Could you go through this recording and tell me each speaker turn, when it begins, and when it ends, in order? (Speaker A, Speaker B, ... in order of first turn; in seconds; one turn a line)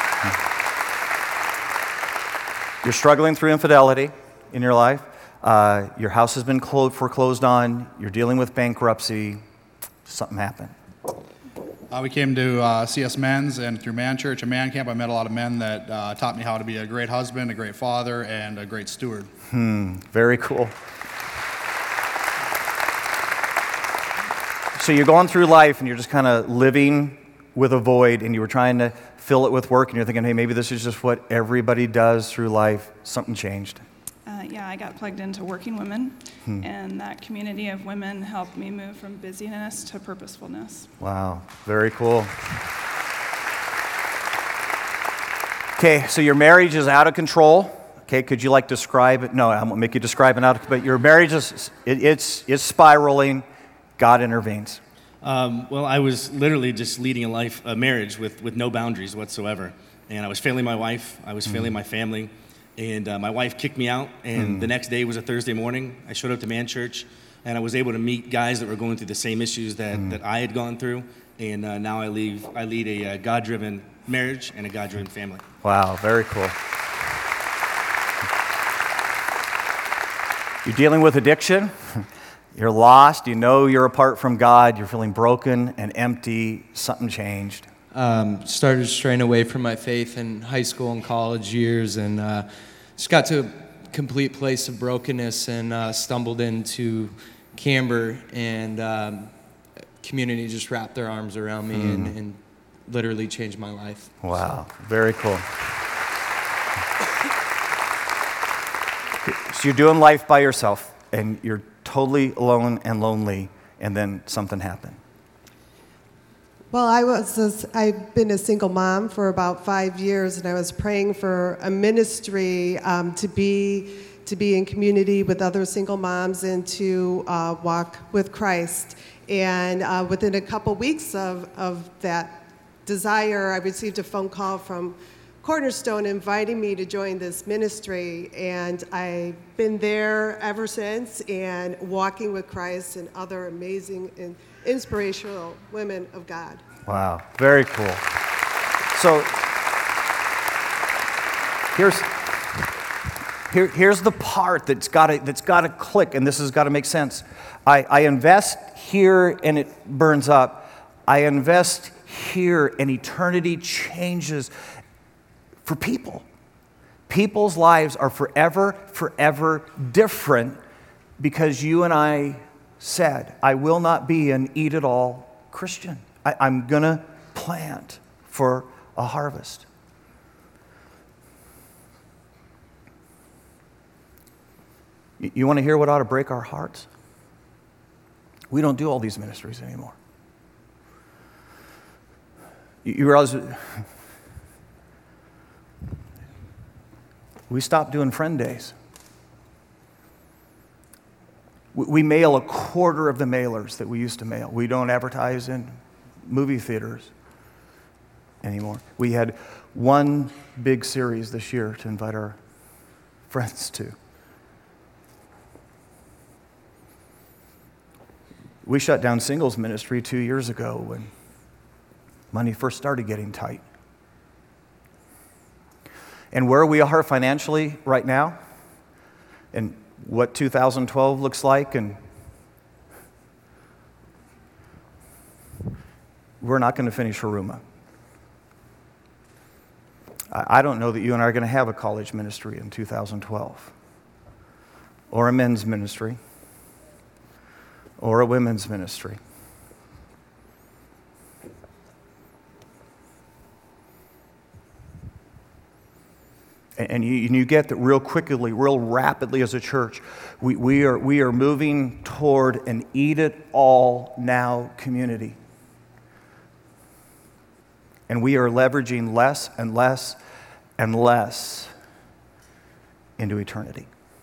Speaker A: 2.8-9.4
Speaker A: 10.1-10.7
Speaker B: 11.9-19.3
Speaker A: 19.5-20.8
Speaker A: 24.8-33.9
Speaker C: 34.3-40.9
Speaker A: 41.0-42.3
Speaker A: 45.8-53.5
Speaker A: 54.0-54.8
Speaker D: 55.2-75.5
Speaker A: 64.4-64.7
Speaker A: 75.6-76.6
Speaker A: 80.6-87.7
Speaker E: 87.9-99.3
Speaker E: 100.0-104.5
Speaker A: 101.7-102.1
Speaker A: 104.2-105.5
Speaker A: 109.2-115.0
Speaker F: 116.7-146.6
Speaker A: 146.9-148.1
Speaker A: 148.9-149.5
Speaker A: 151.8-152.2
Speaker A: 153.5-164.5
Speaker A: 165.7-166.3
Speaker A: 167.1-170.6
Speaker A: 171.2-179.7
Speaker A: 185.2-186.9
Speaker A: 188.5-189.9
Speaker A: 192.8-193.8
Speaker A: 197.5-198.8
Speaker A: 201.7-207.1
Speaker A: 208.4-212.4
Speaker A: 213.3-214.0
Speaker A: 218.6-221.1
Speaker A: 222.3-223.6
Speaker A: 226.3-228.4
Speaker A: 229.5-232.0
Speaker A: 236.4-237.6
Speaker A: 240.3-243.7
Speaker A: 245.1-246.2
Speaker A: 248.0-249.2
Speaker A: 256.8-265.4
Speaker A: 268.1-270.2
Speaker A: 270.8-271.7
Speaker A: 273.2-273.9